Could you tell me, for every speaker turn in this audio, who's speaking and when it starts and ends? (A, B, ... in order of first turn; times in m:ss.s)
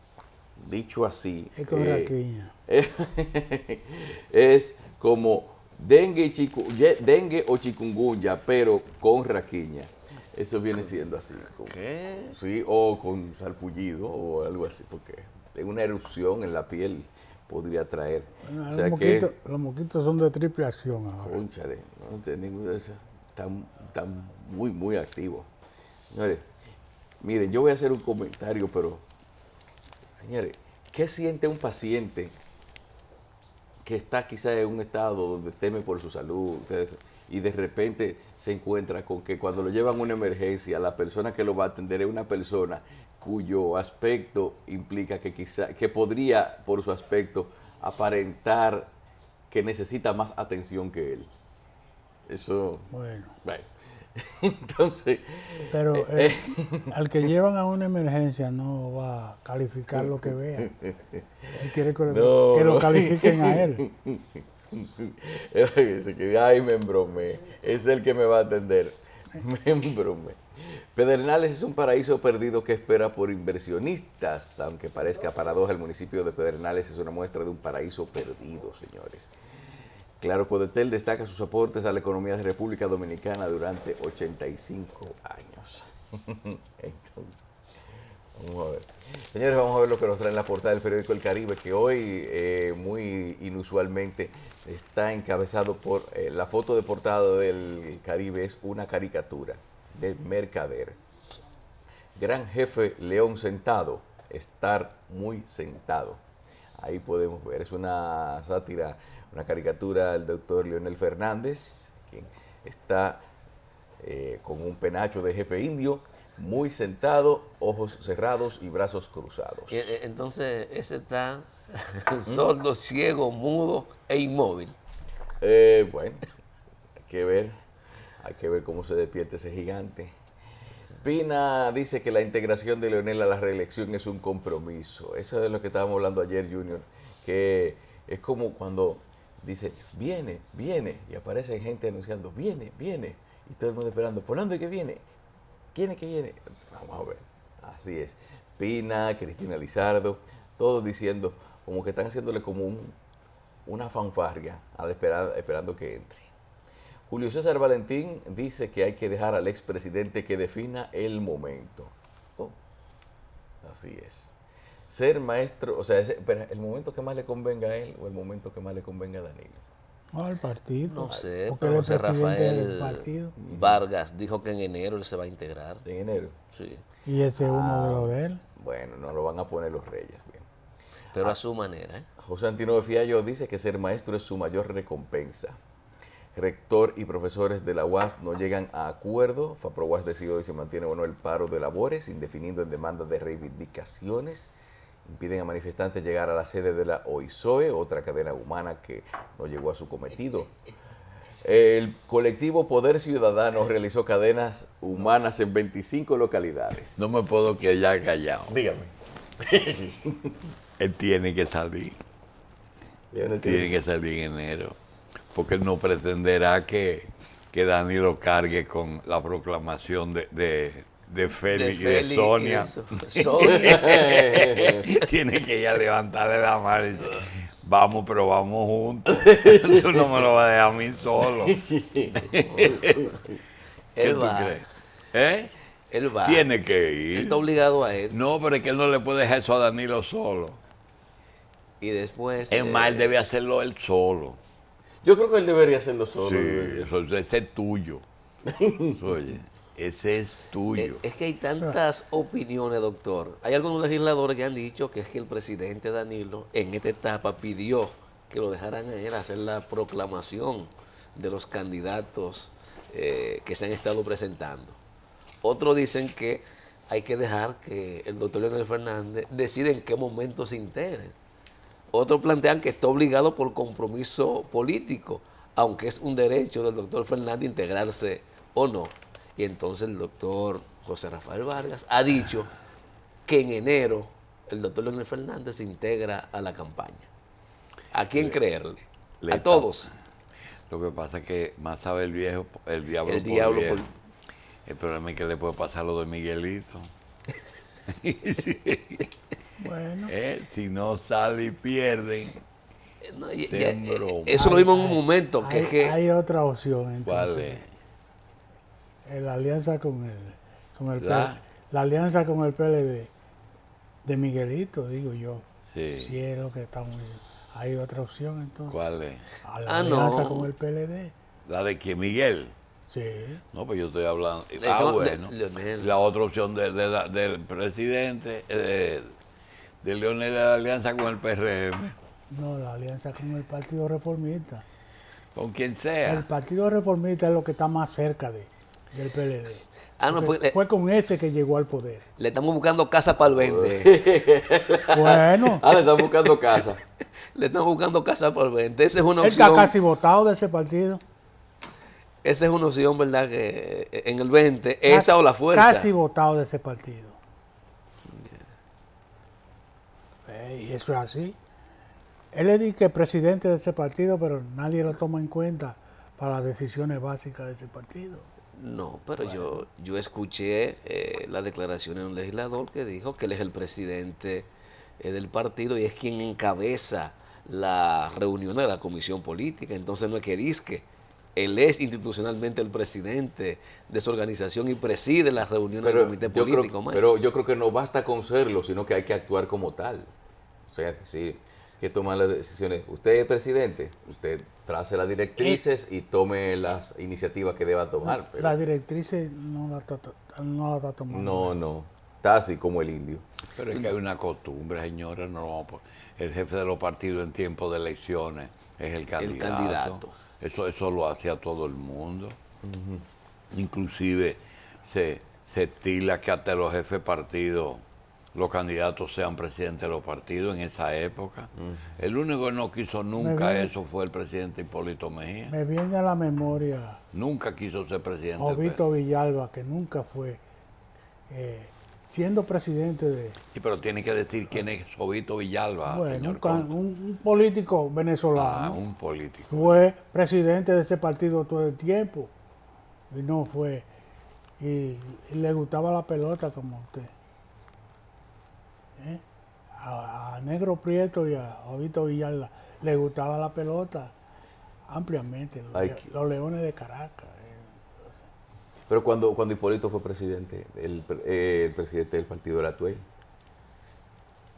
0:00.6-0:02.2 A
0:01.6-0:02.5 B
0:02.7-0:11.8 A
0:11.6-0:12.4 C
0:12.3-0:19.3 A
0:18.5-0:21.4 B
0:21.2-0:25.5 A
0:26.1-0:26.5 A
0:27.2-0:29.0 A
0:30.2-0:32.4 A
0:33.8-0:48.9 A
0:49.5-0:51.3 A
0:52.3-0:52.9 A
0:52.9-0:53.4 B
0:53.4-0:57.3 A
0:55.7-1:00.7 B
1:00.0-1:19.3 A
1:01.5-1:03.9 B
1:20.2-1:27.4 A
1:28.4-1:41.0 A
1:42.2-1:46.2 A
1:46.8-1:53.3 A
1:54.0-1:59.8 A
1:59.7-2:04.8 C
2:05.4-2:06.2 A
2:07.1-2:07.6 A
2:08.2-2:10.2 A
2:11.0-2:25.0 A
2:25.7-2:33.0 A
2:33.7-2:36.3 A
2:37.1-2:42.6 A
2:43.6-2:44.3 A
2:44.9-2:49.6 A
2:50.1-2:53.4 B
2:50.9-2:55.8 C
2:53.4-2:53.8 A
2:55.8-2:56.4 A
2:56.5-2:56.8 C
2:57.0-2:58.4 B
2:57.4-3:00.5 A
3:01.1-3:02.1 C
3:02.2-3:05.6 A
3:06.4-3:14.5 A
3:15.0-3:20.5 A
3:21.4-3:27.0 A
3:27.0-3:28.6 D
3:28.5-3:30.4 A
3:30.8-3:32.0 D
3:33.1-3:33.8 A
3:33.4-3:34.8 D
3:35.3-3:51.6 D
3:41.5-3:44.9 C
3:43.5-3:44.9 A
3:49.3-3:50.0 A
3:51.4-3:52.2 A
3:52.2-3:53.1 D
3:52.3-3:53.2 C
3:54.0-3:54.6 C
3:54.0-3:55.5 D
3:55.9-3:56.5 C
3:56.2-3:57.5 D
3:57.1-3:58.2 C
3:58.1-4:00.6 D
4:01.8-4:03.2 C
4:02.5-4:04.4 D
4:05.0-4:06.9 A
4:06.2-4:08.0 D
4:08.4-4:09.1 A
4:08.9-4:11.0 D
4:10.7-4:24.8 C
4:25.4-4:31.2 C
4:31.9-4:42.5 C
4:43.3-4:47.1 C
4:47.9-4:49.9 C
4:49.2-4:49.8 D
4:50.7-4:53.8 D
4:53.0-4:53.9 C
4:54.7-4:56.9 D
4:57.9-4:59.1 D
4:59.6-5:00.1 B
5:00.1-5:02.4 D
5:03.0-5:06.0 C
5:03.5-5:04.6 D
5:04.3-5:07.6 B
5:07.0-5:07.7 D
5:09.0-5:13.1 B
5:11.0-5:11.4 D
5:14.0-5:15.5 B
5:15.7-5:16.2 D
5:16.0-5:18.8 B
5:18.7-5:19.3 D
5:19.4-5:21.1 B
5:19.6-5:20.5 C
5:21.5-5:22.6 D
5:22.9-5:23.4 B
5:23.5-5:29.2 D
5:24.6-5:25.9 C
5:29.8-5:32.0 D
5:32.3-5:34.6 B
5:35.4-5:36.3 D
5:36.1-5:42.0 B
5:40.0-5:40.6 C
5:42.2-5:44.0 C
5:43.4-5:46.8 A
5:44.9-5:45.7 B
5:47.3-5:49.7 C
5:49.2-5:51.0 B
5:52.2-5:55.9 C
5:54.9-5:57.2 B
5:58.1-5:58.4 C
6:00.3-6:01.4 B
6:02.3-6:08.3 B
6:08.6-6:27.1 C
6:25.8-6:30.1 A
6:30.7-6:38.6 A
6:38.0-6:41.6 B
6:41.1-6:43.2 A
6:43.6-6:52.4 D
6:49.2-6:50.1 C
6:52.6-6:53.0 A
6:53.5-6:57.8 D
6:58.3-7:05.6 D
7:01.6-7:01.9 A
7:03.2-7:03.7 B
7:05.5-7:07.0 B
7:07.1-7:08.8 D
7:08.4-7:10.4 B
7:11.3-7:13.4 B
7:13.5-7:16.7 D
7:15.9-7:18.8 B
7:18.4-7:19.8 D
7:19.5-7:22.3 B
7:23.1-7:23.9 B
7:24.6-7:27.1 B
7:29.0-7:29.2 B
7:29.8-7:34.1 B
7:34.9-7:38.1 B
7:35.7-7:36.1 A
7:38.9-7:43.0 A